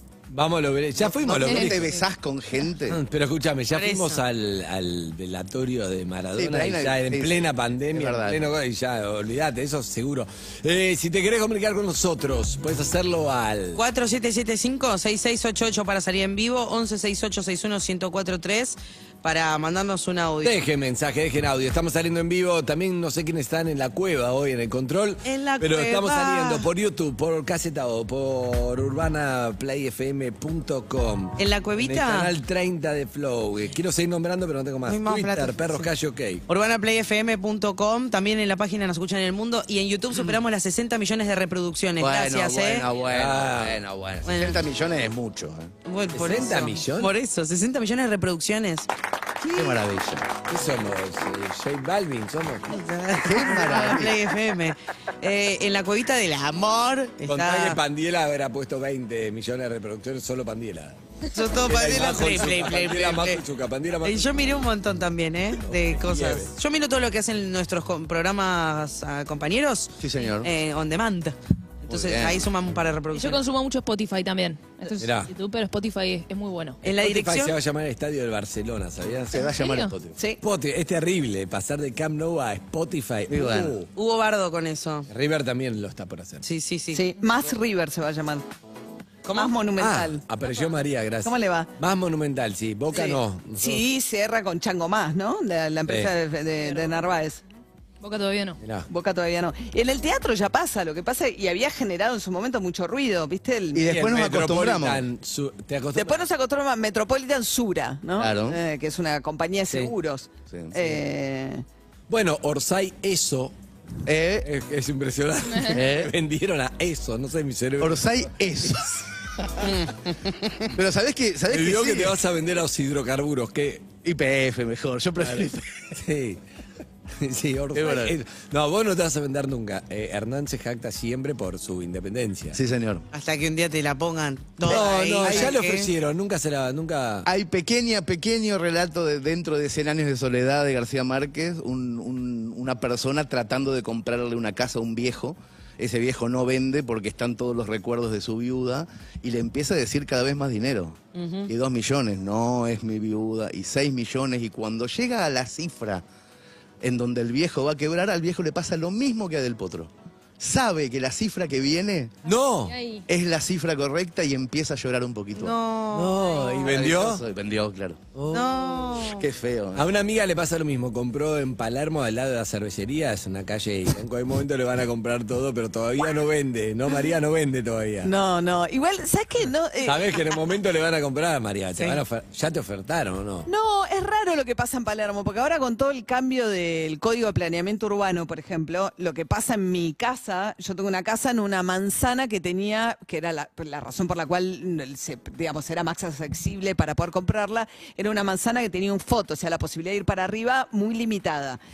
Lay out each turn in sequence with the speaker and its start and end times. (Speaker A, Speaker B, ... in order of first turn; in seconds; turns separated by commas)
Speaker A: 0.3-2.0, Speaker B: 1.0-3.0, Speaker C: 1.4-1.8, Speaker A: 2.9-13.8, Speaker D: 3.7-4.2, Speaker B: 6.3-8.4, Speaker D: 13.7-20.6, Speaker A: 20.4-36.4, Speaker D: 25.2-26.7, Speaker D: 31.4-32.3, Speaker D: 34.9-35.9, Speaker D: 36.5-42.9, Speaker B: 42.0-45.7, Speaker A: 43.1-43.8, Speaker D: 44.2-44.6, Speaker D: 45.9-48.9, Speaker A: 46.1-47.1, Speaker B: 49.5-50.3, Speaker A: 50.4-52.7, Speaker D: 52.7-57.8, Speaker B: 53.2-54.3, Speaker A: 57.2-61.0, Speaker D: 61.3-63.4, Speaker A: 61.6-64.3, Speaker D: 64.0-73.4, Speaker A: 65.7-66.5, Speaker B: 70.0-70.5, Speaker B: 71.9-72.5, Speaker C: 73.1-76.8, Speaker A: 75.0-75.3, Speaker D: 76.8-77.5, Speaker A: 76.9-79.3, Speaker B: 79.3-80.2, Speaker C: 79.5-79.9, Speaker A: 80.4-83.9, Speaker B: 83.3-83.7, Speaker D: 83.9-85.1, Speaker A: 85.1-86.4, Speaker D: 86.4-87.0, Speaker E: 86.9-88.4, Speaker D: 89.2-89.5, Speaker E: 89.3-90.2, Speaker A: 89.8-93.8, Speaker E: 91.2-91.7, Speaker E: 92.9-97.4, Speaker A: 95.9-96.1, Speaker C: 98.0-98.6, Speaker A: 98.6-98.9, Speaker E: 98.9-103.9, Speaker B: 103.7-105.0, Speaker A: 103.8-106.2, Speaker E: 105.9-111.6, Speaker B: 108.2-108.6, Speaker A: 112.1-113.5, Speaker B: 114.0-114.5, Speaker A: 114.4-118.0, Speaker B: 115.7-116.1, Speaker B: 117.8-119.0, Speaker D: 119.6-120.7, Speaker B: 120.7-122.2, Speaker A: 121.5-123.9, Speaker B: 124.0-125.8, Speaker A: 125.2-126.4, Speaker A: 127.2-132.6, Speaker B: 127.7-128.2, Speaker B: 132.5-133.1, Speaker D: 133.1-135.9, Speaker A: 134.6-137.3, Speaker B: 134.7-135.5, Speaker B: 137.2-156.0, Speaker D: 151.1-151.5, Speaker B: 156.8-162.2, Speaker A: 162.2-162.8, Speaker C: 162.7-163.0, Speaker B: 163.1-165.6, Speaker D: 165.3-166.3, Speaker A: 165.9-167.2, Speaker B: 166.6-168.0, Speaker A: 168.1-168.8, Speaker D: 168.3-169.3, Speaker B: 169.1-169.9, Speaker A: 169.8-178.1, Speaker E: 178.0-180.3, Speaker A: 179.8-183.5, Speaker E: 183.4-201.6